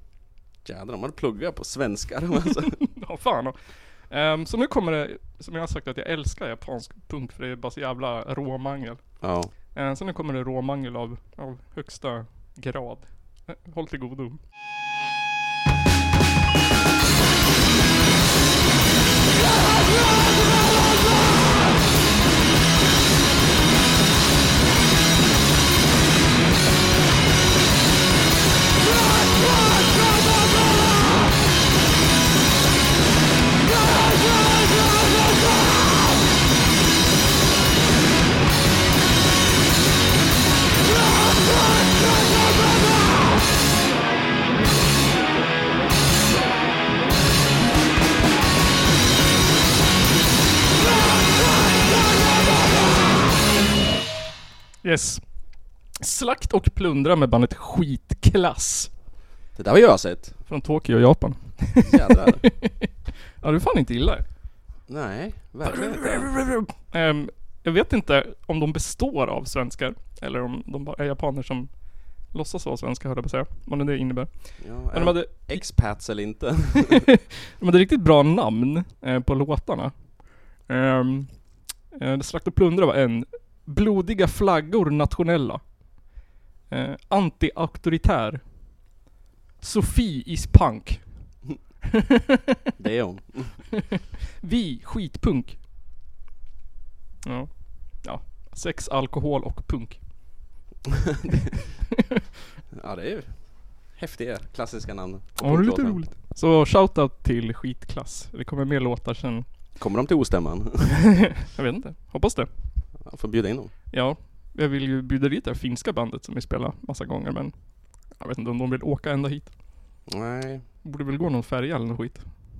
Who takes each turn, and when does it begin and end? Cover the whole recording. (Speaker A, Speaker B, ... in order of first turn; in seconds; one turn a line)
Speaker A: 0.6-2.8
Speaker B: 2.9-14.4
Speaker A: 9.2-9.5
Speaker B: 54.8-58.9
Speaker A: 59.5-60.4
Speaker B: 60.5-62.9
Speaker A: 61.8-62.4
Speaker B: 63.4-64.2
Speaker A: 64.9-66.3
Speaker B: 65.6-75.7
Speaker A: 74.6-77.0
Speaker B: 77.6-85.9
Speaker B: 86.7-88.7
Speaker B: 89.6-91.4
Speaker A: 92.8-93.7
Speaker B: 94.4-95.6
Speaker B: 97.2-100.4
Speaker A: 102.7-106.0
Speaker B: 105.4-109.4
Speaker A: 109.8-111.0
Speaker B: 111.4-112.5
Speaker A: 113.0-113.7
Speaker B: 113.9-119.6
Speaker A: 120.1-120.7
Speaker B: 120.8-122.3